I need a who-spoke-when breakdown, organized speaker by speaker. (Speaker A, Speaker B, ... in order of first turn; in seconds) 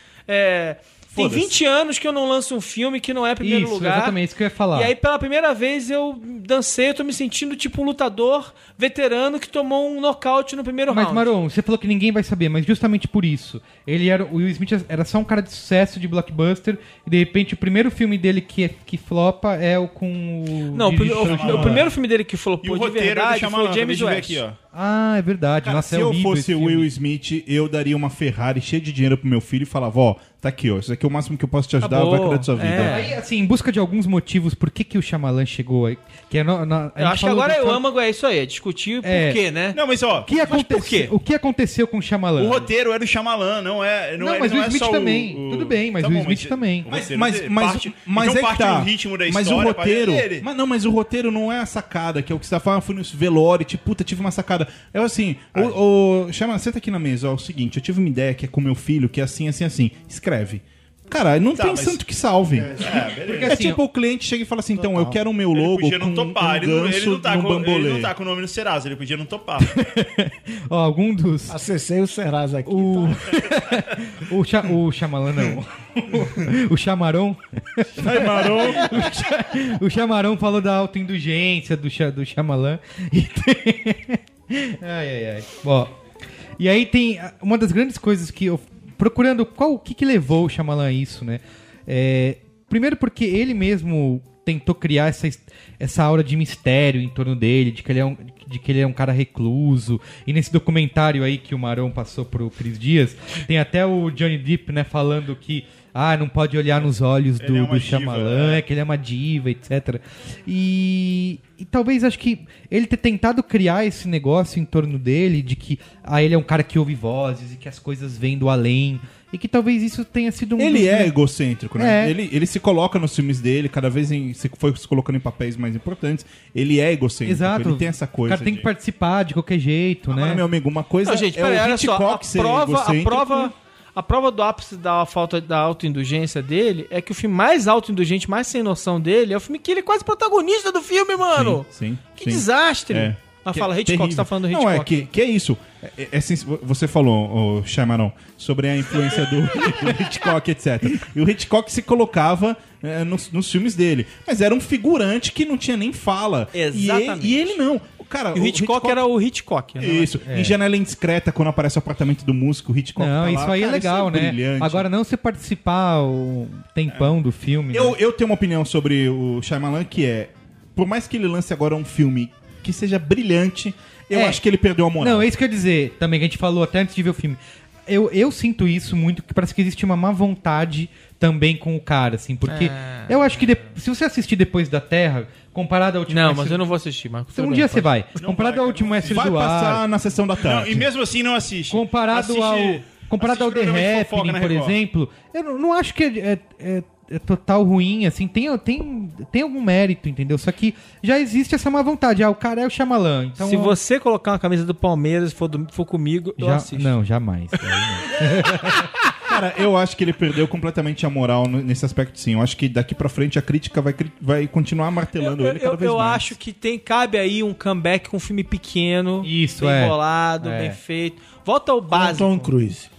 Speaker A: 0.3-4.2, 4.7-11.3, 20.7-24.4, 31.8-33.1, 37.0-41.1, 131.1-145.1, 156.5-157.6, 158.3-160.1, 182.5-183.2, 186.1-188.0, 203.4-207.0, 215.2-222.5
Speaker B: 1.2-1.5, 21.4-21.8, 25.6-33.1, 46.9-68.1, 78.0-79.1, 120.6-128.7, 130.1-133.5, 141.3-159.0, 159.8-164.9, 167.7-175.3, 189.1-190.9, 209.2-216.3
Speaker C: 3.4-4.9, 10.9-21.8, 24.7-26.9, 32.7-37.8, 39.0-39.4, 40.2-42.7, 44.2-46.9, 63.3-63.8, 69.6-71.6, 72.7-85.9, 86.6-121.1, 121.8-122.2, 127.2-130.4, 160.2-160.6, 163.0-168.0, 174.1-174.4, 175.0-186.7, 187.3-189.8, 191.7-203.8, 206.4-208.9, 219.2-220.8
Speaker D: 21.1-21.9, 22.6-24.6, 39.7-40.3, 42.4-50.5, 55.5-55.8, 61.5-62.0, 62.8-63.6, 65.5-69.7, 107.4-108.6, 188.2-189.3, 190.4-194.8
Speaker E: 62.5-63.1, 64.8-65.2, 71.5-73.4, 221.9-222.9